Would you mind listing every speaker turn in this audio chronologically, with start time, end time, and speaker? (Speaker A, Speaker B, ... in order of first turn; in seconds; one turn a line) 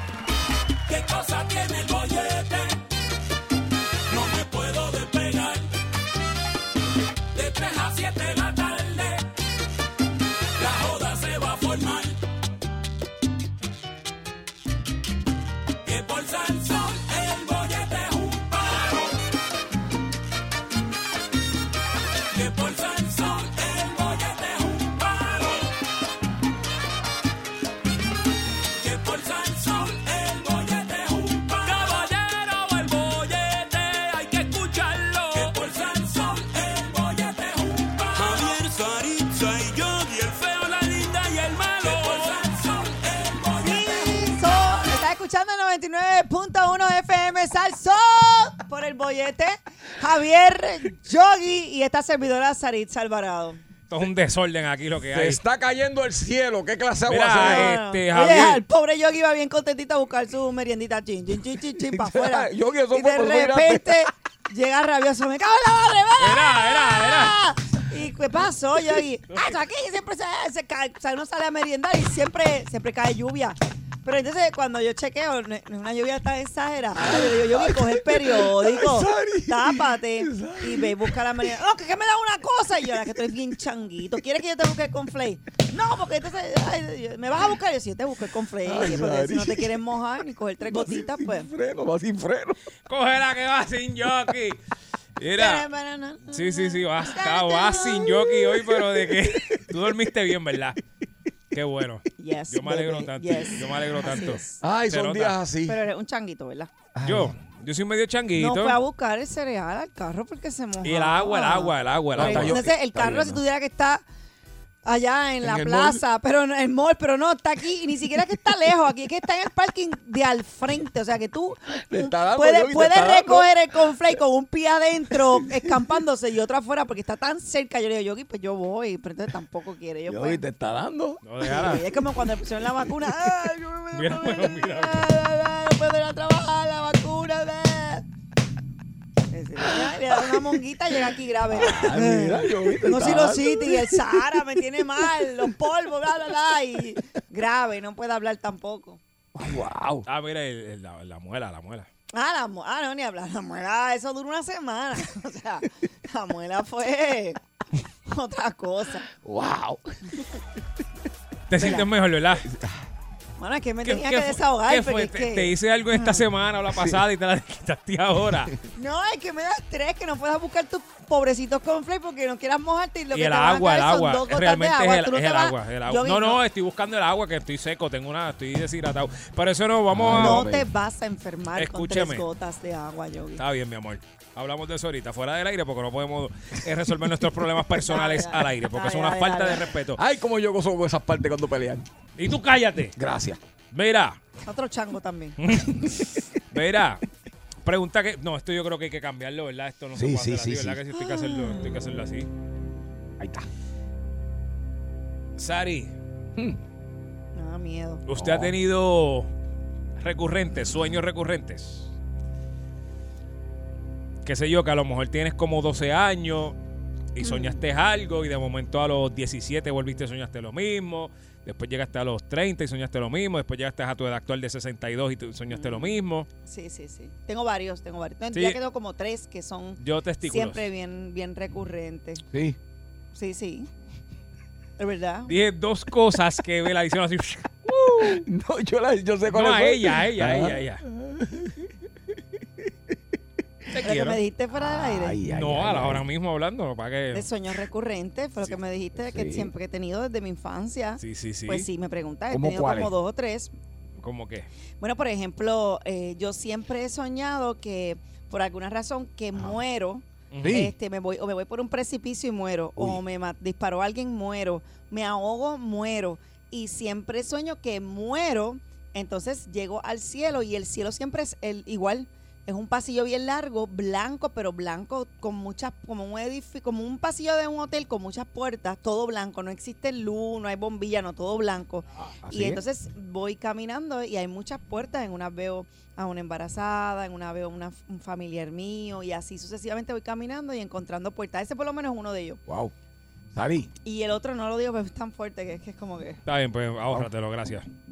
Speaker A: 0.9-2.8
Speaker A: 4.1-5.7
Speaker A: 7.3-9.2
Speaker A: 10.6-12.2
Speaker A: 15.8-19.1
Speaker A: 22.3-25.7
Speaker A: 28.8-44.3
Speaker B: 43.6-53.6
Speaker C: 53.9-55.4
Speaker D: 55.1-57.8
Speaker C: 57.1-58.6
Speaker B: 57.4-91.5
Speaker D: 61.8-64.1
Speaker C: 66.2-67.3
Speaker D: 77.0-81.5
Speaker D: 88.6-89.7
Speaker D: 90.6-92.6
Speaker C: 92.9-94.6
Speaker C: 95.2-95.7
Speaker B: 95.4-98.4
Speaker C: 96.3-100.8
Speaker D: 98.6-99.9
Speaker C: 101.5-105.3
Speaker B: 102.2-104.6
Speaker D: 104.6-105.8
Speaker B: 105.7-106.7
Speaker D: 106.9-107.3
Speaker C: 107.0-108.8
Speaker B: 108.3-114.0
Speaker C: 110.8-113.4
Speaker D: 112.2-113.3
Speaker B: 114.8-130.4
Speaker D: 115.4-116.0
Speaker D: 121.9-123.5
Speaker D: 130.1-131.2
Speaker C: 131.2-131.8
Speaker B: 131.5-138.0
Speaker D: 132.8-133.6
Speaker C: 133.9-135.1
Speaker B: 139.3-149.0
Speaker D: 139.6-139.9
Speaker D: 141.5-144.4
Speaker D: 145.0-145.5
Speaker D: 149.3-150.0
Speaker C: 150.1-151.9
Speaker B: 152.1-157.4
Speaker B: 158.1-159.0
Speaker D: 159.2-160.2
Speaker C: 161.5-162.4
Speaker D: 162.4-162.8
Speaker B: 163.4-166.2
Speaker C: 163.8-168.5
Speaker D: 166.7-167.0
Speaker B: 168.7-176.4
Speaker C: 173.1-180.5
Speaker D: 179.9-180.7
Speaker B: 180.1-183.4
Speaker C: 181.6-182.2
Speaker C: 183.4-190.0
Speaker B: 187.8-189.6
Speaker D: 189.9-191.8
Speaker C: 192.2-192.9
Speaker D: 192.9-193.4
Speaker C: 193.7-194.2
Speaker B: 194.4-195.4
Speaker C: 195.4-195.9
Speaker C: 196.5-197.0
Speaker C: 197.6-202.3
Speaker D: 199.9-200.8
Speaker B: 200.9-201.7
Speaker D: 203.2-203.5
Speaker C: 205.4-205.9
Speaker B: 207.3-208.0
Speaker C: 208.1-209.3
Speaker D: 208.1-208.5
Speaker C: 210.0-211.9
Speaker C: 214.2-216.6
Speaker C: 217.2-226.3
Speaker B: 217.2-217.6
Speaker B: 225.5-232.2
Speaker C: 228.3-228.6
Speaker C: 229.8-230.6
Speaker D: 232.3-232.6
Speaker B: 233.1-233.7
Speaker B: 234.8-235.3
Speaker C: 235.3-238.1
Speaker D: 237.9-241.7
Speaker C: 239.3-240.8
Speaker C: 243.7-244.2
Speaker B: 243.8-245.2
Speaker D: 244.5-246.0
Speaker C: 245.3-247.2
Speaker B: 247.1-253.5
Speaker D: 249.0-249.5
Speaker C: 251.0-251.7
Speaker D: 252.3-252.9
Speaker C: 254.0-254.5
Speaker B: 254.8-292.4
Speaker C: 260.3-260.6
Speaker D: 260.4-260.7
Speaker D: 282.0-282.6
Speaker D: 292.5-292.7
Speaker D: 293.3-293.7
Speaker B: 293.8-296.2
Speaker C: 296.2-297.6